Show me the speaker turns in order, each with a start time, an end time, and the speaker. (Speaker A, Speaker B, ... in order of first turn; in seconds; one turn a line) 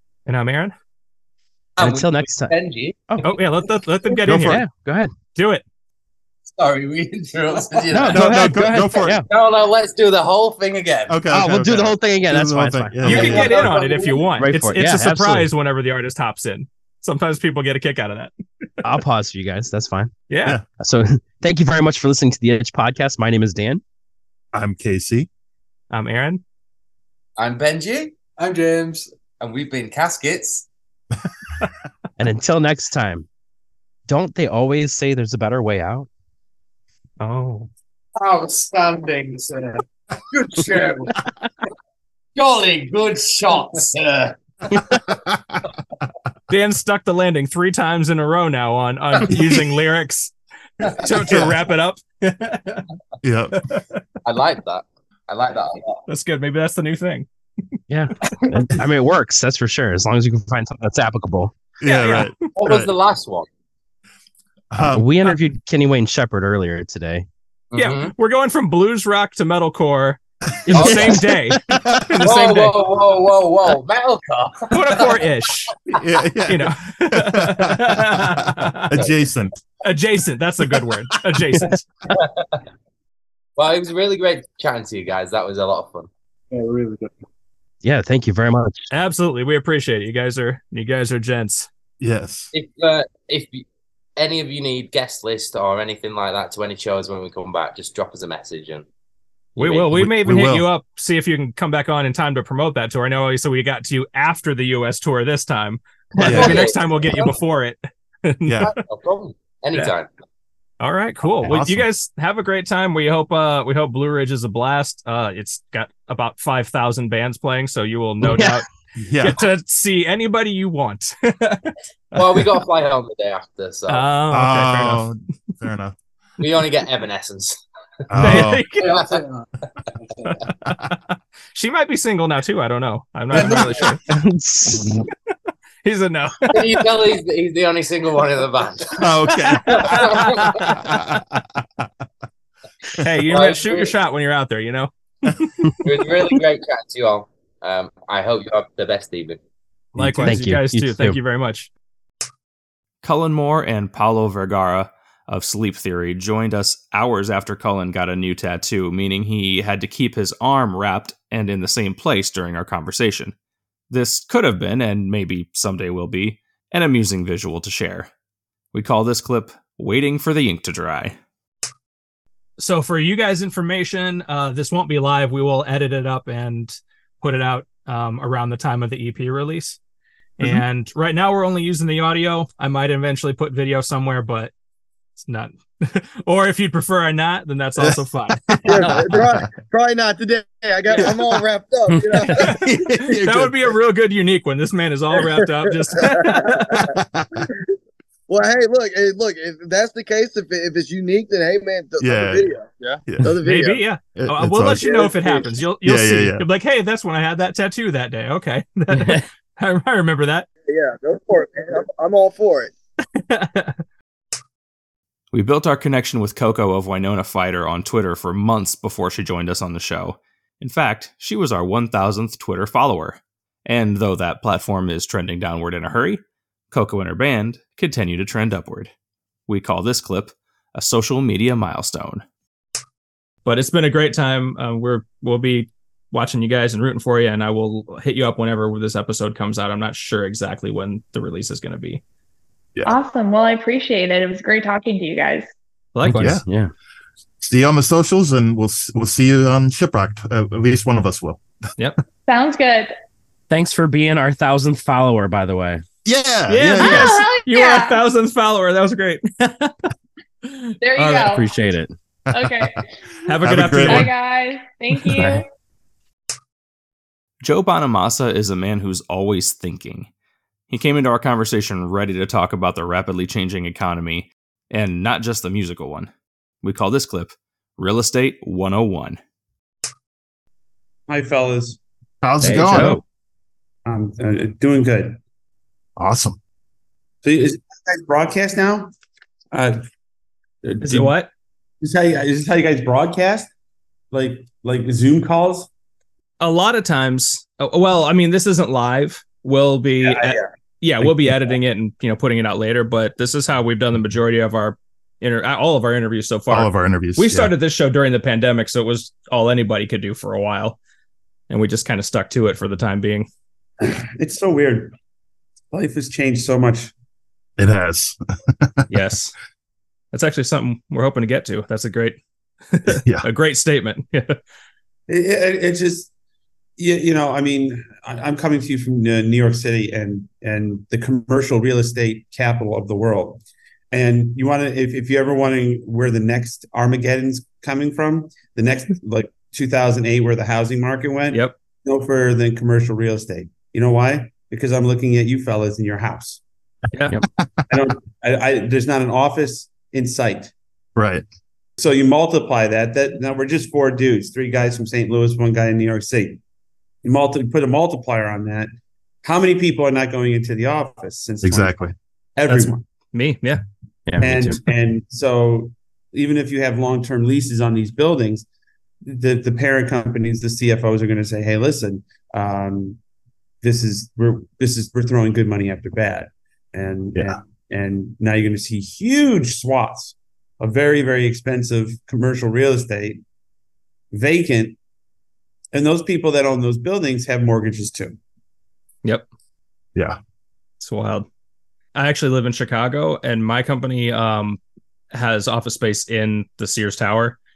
Speaker A: 0.2-0.7
Speaker B: 1.8-3.0
Speaker C: 1.8-2.6
Speaker C: 3.1-3.4
Speaker A: 3.2-4.6
Speaker D: 4.2-4.6
Speaker C: 4.3-5.1
Speaker A: 5.3-5.6
Speaker B: 6.5-11.2
Speaker C: 7.9-9.2
Speaker D: 7.9-9.2
Speaker D: 11.1-13.6
Speaker C: 11.3-15.5
Speaker A: 13.0-18.3
Speaker B: 13.1-14.3
Speaker C: 18.8-20.1
Speaker A: 20.3-20.6
Speaker C: 20.8-23.8
Speaker D: 24.5-25.3
Speaker A: 25.9-26.4
Speaker B: 27.4-28.1
Speaker B: 28.7-30.6
Speaker C: 32.2-33.2
Speaker C: 34.1-36.1
Speaker A: 37.2-37.7
Speaker B: 42.4-43.5
Speaker A: 46.5-52.8
Speaker D: 51.2-51.6
Speaker D: 53.2-53.5
Speaker B: 54.2-56.0
Speaker A: 56.1-57.3
Speaker C: 57.9-61.5
Speaker D: 61.8-62.9
Speaker A: 61.8-62.3
Speaker B: 62.5-63.5
Speaker D: 64.7-65.3
Speaker C: 64.9-67.2
Speaker B: 67.7-68.1
Speaker A: 67.8-70.2
Speaker D: 70.7-71.1
Speaker A: 70.7-72.8
Speaker C: 70.7-71.1
Speaker B: 70.7-71.2
Speaker D: 71.7-72.2
Speaker B: 72.2-75.2
Speaker A: 74.7-75.7
Speaker D: 76.0-79.5
Speaker A: 76.5-79.0
Speaker A: 79.8-81.8
Speaker B: 83.6-86.1
Speaker C: 87.8-88.8
Speaker A: 88.9-91.7
Speaker D: 92.0-92.5
Speaker B: 92.5-93.6
Speaker B: 94.2-98.8
Speaker B: 99.5-99.9
Speaker A: 99.6-108.7
Speaker D: 99.9-100.7
Speaker B: 106.2-107.3
Speaker D: 106.2-106.6
Speaker D: 108.4-108.7
Speaker B: 108.6-110.1
Speaker A: 110.8-118.6
Speaker D: 111.4-111.8
Speaker C: 118.2-118.6
Speaker D: 119.0-119.4
Speaker A: 119.2-121.7
Speaker B: 122.1-124.1
Speaker A: 123.9-125.0
Speaker D: 124.3-126.0
Speaker B: 126.4-127.6
Speaker D: 128.1-128.7
Speaker A: 128.2-129.0
Speaker B: 128.8-129.2
Speaker A: 130.3-131.0
Speaker A: 131.5-134.0
Speaker C: 134.1-135.0
Speaker A: 135.8-136.8
Speaker B: 136.5-140.6
Speaker D: 139.0-140.1
Speaker A: 139.0-140.9
Speaker D: 140.7-141.8
Speaker A: 143.0-145.5
Speaker B: 143.2-143.9
Speaker B: 145.8-149.4
Speaker C: 149.9-151.2
Speaker A: 150.0-151.7
Speaker E: 153.0-163.3
Speaker E: 163.9-168.1
Speaker E: 168.7-171.2
Speaker A: 172.6-179.8
Speaker A: 180.4-184.5
Speaker A: 185.2-188.9
Speaker F: 188.7-192.5
Speaker D: 188.8-189.3
Speaker C: 191.9-192.2
Speaker A: 192.3-196.8
Speaker D: 192.5-193.6
Speaker F: 195.2-196.9
Speaker D: 196.9-197.3
Speaker F: 198.3-203.8
Speaker D: 202.0-202.5
Speaker A: 203.4-210.5
Speaker D: 204.2-204.9
Speaker F: 204.8-205.5
Speaker D: 205.8-206.4
Speaker C: 208.9-209.2
Speaker F: 210.7-212.7
Speaker A: 213.2-213.8
Speaker E: 215.3-228.9
Speaker E: 229.5-232.2
Speaker A: 233.4-242.0
Speaker G: 242.8-245.5
Speaker A: 245.9-246.3
Speaker C: 246.0-246.7
Speaker D: 246.2-246.4
Speaker D: 247.4-251.4
Speaker G: 252.3-252.9
Speaker C: 253.5-255.8
Speaker D: 256.0-257.3
Speaker A: 256.5-259.7
Speaker G: 256.8-258.0
Speaker A: 260.5-261.4
Speaker G: 260.8-261.5
Speaker C: 261.1-261.9
Speaker D: 262.3-262.7
Speaker G: 262.3-262.8
Speaker A: 263.2-264.1
Speaker D: 263.4-264.1
Speaker G: 263.8-265.4
Speaker C: 265.1-265.4
Speaker E: 267.4-270.1
Speaker E: 270.7-276.1
Speaker E: 276.6-279.2
Speaker H: 281.1-281.8
Speaker D: 282.2-283.0
Speaker C: 282.5-282.9
Speaker A: 282.5-283.0
Speaker H: 283.9-285.2
Speaker D: 286.0-286.4
Speaker H: 287.2-288.9
Speaker H: 289.5-289.8
Speaker H: 290.6-291.1
Speaker A: 290.8-291.3
Speaker H: 291.8-293.5
Speaker H: 294.1-295.7
Speaker A: 296.4-310.8
Speaker H: 300.0-300.4
Speaker D: 306.5-307.5
Speaker A: 311.5-313.3
Speaker H: 313.8-314.9
Speaker H: 315.7-316.9
Speaker D: 317.6-318.8
Speaker A: 318.9-319.3
Speaker A: 320.1-322.2
Speaker A: 322.7-324.4
Speaker H: 325.1-326.1
Speaker H: 326.8-333.4
Speaker H: 333.9-346.4
Speaker H: 347.7-350.5
Speaker D: 350.9-351.2
Speaker H: 351.8-356.4
Speaker H: 357.0-358.7
Speaker H: 359.2-361.8
Speaker D: 361.4-361.9
Speaker H: 362.4-362.8
Speaker A: 362.5-363.6
Speaker C: 364.1-364.6
Speaker H: 364.2-368.4
Speaker H: 369.0-373.0
Speaker H: 373.6-383.2
Speaker H: 384.1-384.8
Speaker H: 385.7-388.2
Speaker A: 390.8-391.2
Speaker A: 391.9-394.6
Speaker A: 395.1-397.4